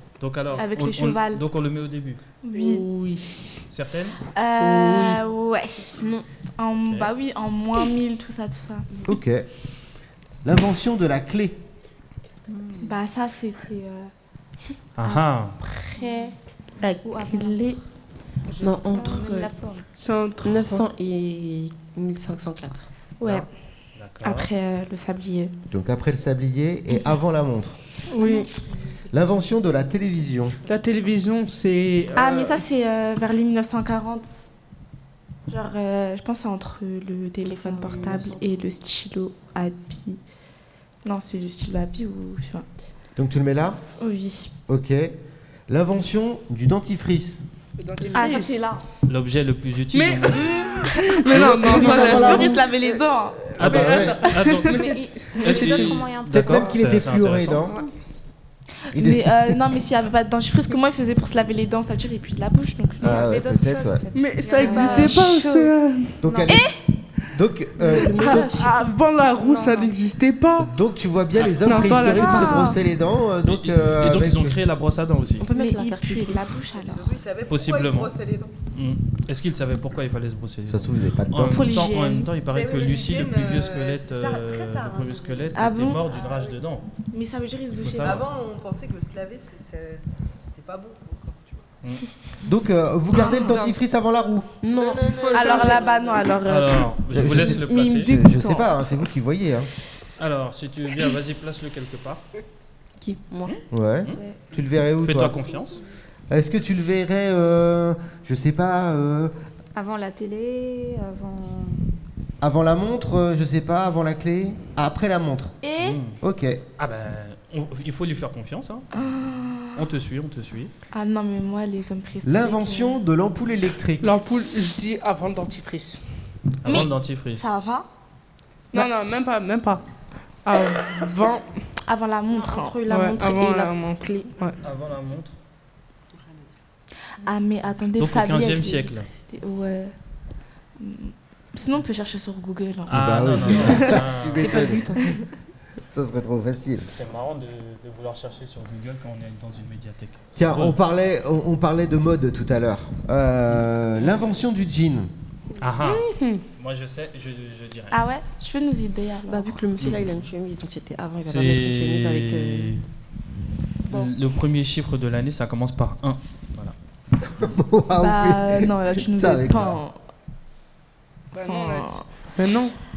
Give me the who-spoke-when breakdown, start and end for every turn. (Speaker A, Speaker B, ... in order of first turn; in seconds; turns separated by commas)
Speaker A: 0.2-2.2, Speaker B: 0.5-1.4, Speaker B: 2.4-2.9, Speaker C: 2.5-3.6, Speaker A: 3.7-4.2, Speaker B: 4.3-8.9, Speaker C: 4.6-5.2, Speaker A: 6.8-7.1, Speaker D: 9.1-9.5, Speaker D: 10.4-11.6, Speaker E: 12.5-12.9, Speaker B: 12.8-14.1, Speaker A: 14.9-15.6, Speaker B: 15.0-16.4, Speaker C: 16.8-17.7, Speaker B: 17.0-17.8, Speaker F: 18.6-19.5, Speaker B: 18.6-19.5, Speaker E: 18.9-19.9, Speaker C: 19.9-20.9, Speaker F: 20.4-22.9, Speaker B: 23.2-23.5, Speaker A: 23.2-24.5, Speaker B: 24.2-25.5, Speaker D: 25.7-27.8, Speaker C: 28.1-28.5, Speaker B: 28.2-28.4, Speaker D: 29.1-30.6, Speaker C: 30.7-32.6, Speaker B: 32.1-34.3, Speaker B: 35.5-40.2, Speaker F: 37.4-38.4, Speaker B: 41.0-42.7, Speaker D: 43.1-43.8, Speaker B: 44.0-44.5, Speaker D: 44.7-45.1, Speaker D: 45.7-47.5, Speaker C: 47.8-48.6, Speaker B: 48.1-48.8, Speaker A: 49.1-50.7, Speaker C: 49.9-52.8, Speaker B: 50.9-54.7, Speaker D: 51.3-52.5, Speaker A: 53.6-57.7, Speaker C: 53.6-56.0, Speaker D: 53.6-54.2, Speaker E: 54.7-56.8, Speaker D: 56.3-57.8, Speaker B: 58.9-63.3, Speaker D: 58.9-59.6, Speaker E: 63.0-65.5, Speaker D: 63.0-64.0, Speaker C: 64.1-66.2, Speaker B: 64.5-65.7, Speaker D: 66.2-66.7, Speaker E: 66.2-66.6, Speaker B: 66.5-66.8, Speaker D: 67.3-68.5, Speaker F: 67.9-68.7, Speaker C: 67.9-70.7, Speaker B: 68.1-70.0, Speaker D: 70.6-74.6, Speaker A: 71.4-71.7, Speaker C: 71.6-72.7, Speaker B: 71.9-72.8, Speaker A: 73.4-75.5, Speaker F: 75.4-76.5, Speaker B: 75.5-77.2, Speaker G: 76.7-78.5, Speaker A: 77.5-78.1, Speaker A: 78.7-86.9, Speaker D: 80.7-81.7, Speaker B: 81.4-82.3, Speaker G: 82.4-86.6, Speaker B: 85.5-86.0, Speaker B: 87.1-88.3, Speaker A: 87.7-88.3, Speaker G: 88.0-91.6, Speaker D: 92.4-94.5, Speaker B: 93.1-93.7, Speaker F: 94.6-95.8, Speaker G: 94.7-96.4, Speaker B: 95.2-99.0, Speaker A: 96.4-98.1, Speaker D: 97.1-99.7, Speaker A: 100.2-102.2, Speaker F: 103.0-103.6, Speaker A: 103.5-104.2, Speaker D: 103.7-105.4, Speaker A: 105.0-105.8, Speaker D: 106.3-109.3, Speaker E: 109.7-111.8, Speaker D: 112.4-115.6, Speaker B: 115.6-116.0, Speaker A: 115.8-116.2, Speaker D: 116.2-116.6, Speaker A: 116.8-118.9, Speaker B: 118.9-119.8, Speaker A: 119.7-120.7, Speaker B: 120.9-123.0, Speaker D: 122.2-124.2, Speaker C: 124.0-126.0, Speaker A: 126.6-127.5, Speaker B: 126.7-127.9, Speaker C: 128.7-129.9, Speaker C: 130.4-131.5, Speaker B: 131.9-132.8, Speaker F: 132.3-134.3, Speaker C: 132.9-134.6, Speaker A: 134.6-135.3, Speaker G: 136.1-136.5, Speaker B: 137.2-139.9, Speaker A: 138.0-139.1, Speaker B: 140.8-145.2, Speaker A: 142.9-144.8, Speaker D: 142.9-145.0, Speaker F: 144.4-145.1, Speaker D: 145.9-146.9, Speaker A: 146.8-150.8, Speaker D: 150.3-155.1, Speaker A: 155.6-158.0, Speaker C: 156.0-156.4, Speaker B: 157.9-159.6, Speaker F: 159.3-162.7, Speaker A: 159.8-160.2, Speaker A: 161.2-162.8, Speaker A: 163.9-166.7, Speaker D: 167.4-169.8, Speaker B: 168.0-169.9, Speaker C: 171.3-172.8, Speaker B: 171.4-172.0